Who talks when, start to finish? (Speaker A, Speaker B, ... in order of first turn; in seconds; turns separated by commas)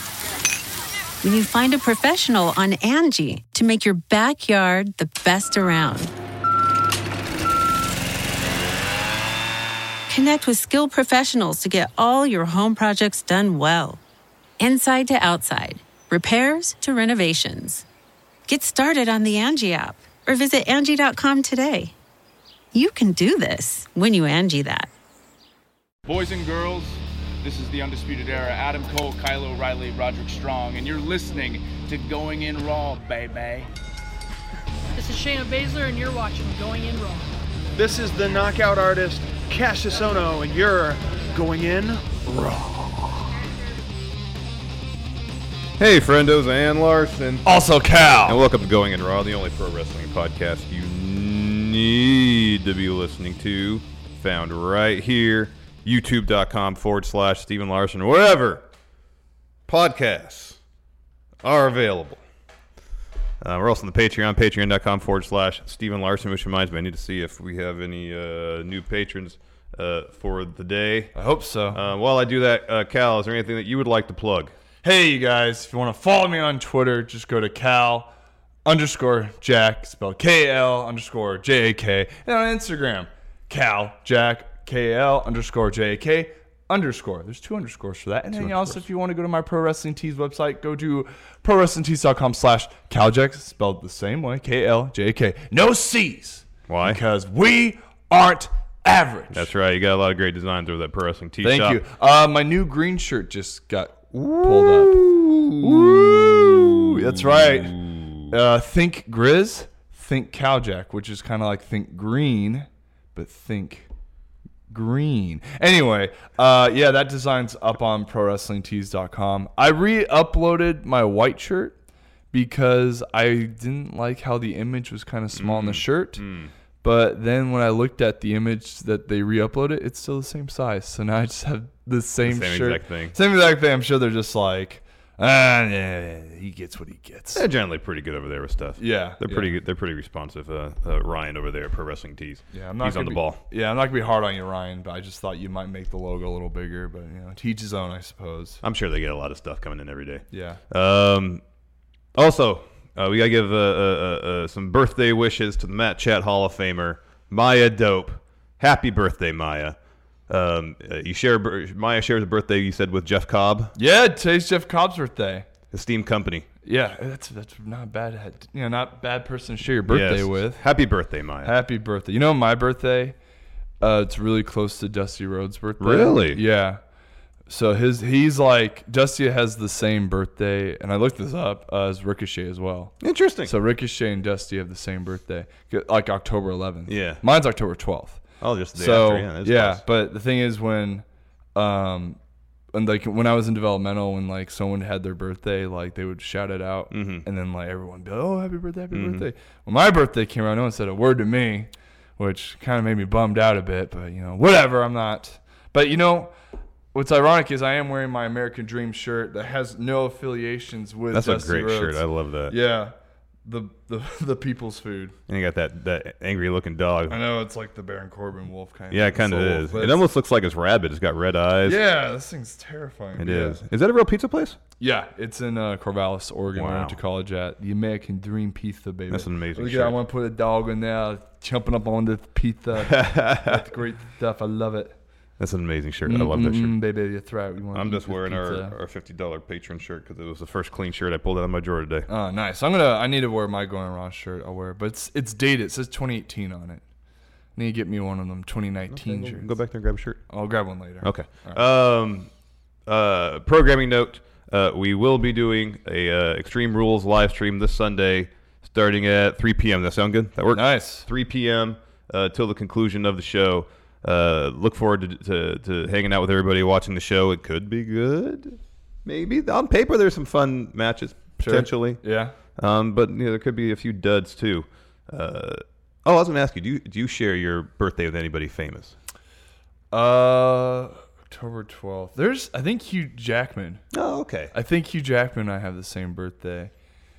Speaker A: 1.2-6.1, Speaker A: 10.1-14.0, Speaker A: 14.6-17.9, Speaker A: 18.5-21.9, Speaker A: 22.7-24.9, Speaker B: 26.1-33.7, Speaker C: 35.0-37.3, Speaker D: 37.7-42.2, Speaker E: 42.2-43.1, Speaker E: 45.8-47.5, Speaker F: 47.5-48.4, Speaker E: 48.3-58.7, Speaker E: 59.7-60.6, Speaker E: 61.4-62.2, Speaker E: 63.4-71.1, Speaker F: 71.2-71.8, Speaker E: 71.7-74.5, Speaker F: 74.8-78.1, Speaker F: 78.7-99.5, Speaker E: 88.3-88.8, Speaker E: 96.7-97.0, Speaker E: 99.3-101.8, Speaker F: 101.4-105.0, Speaker E: 104.1-108.3, Speaker F: 105.6-107.8, Speaker F: 108.3-113.9, Speaker F: 114.7-121.8, Speaker F: 122.3-126.2, Speaker E: 125.3-126.5, Speaker F: 126.8-137.4, Speaker E: 132.2-133.2, Speaker E: 137.3-143.4, Speaker F: 138.8-139.5, Speaker F: 142.5-148.6, Speaker E: 148.6-151.4, Speaker F: 150.3-150.6, Speaker E: 152.2-159.8, Speaker E: 160.3-163.8, Speaker F: 163.8-165.5, Speaker E: 165.7-166.5, Speaker F: 166.7-170.6, Speaker E: 169.9-171.6, Speaker F: 171.4-173.2, Speaker F: 173.8-176.8, Speaker E: 175.8-176.4, Speaker F: 177.5-182.9, Speaker E: 183.0-183.5, Speaker F: 183.4-188.2, Speaker E: 186.9-187.2, Speaker E: 188.4-189.8, Speaker F: 188.7-192.2, Speaker F: 192.7-206.3, Speaker E: 196.9-197.3, Speaker E: 198.9-199.3, Speaker F: 206.9-212.9, Speaker E: 211.1-212.6, Speaker F: 213.4-215.2, Speaker E: 215.3-217.2, Speaker F: 217.1-220.0, Speaker E: 218.9-221.8, Speaker F: 221.6-223.6, Speaker E: 223.2-224.6, Speaker F: 224.8-235.0, Speaker E: 226.5-227.0, Speaker E: 229.1-230.0, Speaker E: 232.8-233.6, Speaker E: 235.4-236.8, Speaker F: 236.1-238.7, Speaker E: 237.7-242.1, Speaker F: 242.1-246.8, Speaker F: 247.6-249.5, Speaker E: 248.9-250.2, Speaker F: 250.3-251.6, Speaker E: 251.0-252.3, Speaker E: 252.9-272.0, Speaker F: 260.5-261.1, Speaker F: 271.4-272.4, Speaker E: 272.6-279.0, Speaker F: 279.9-283.8, Speaker E: 283.9-284.5, Speaker F: 284.5-286.7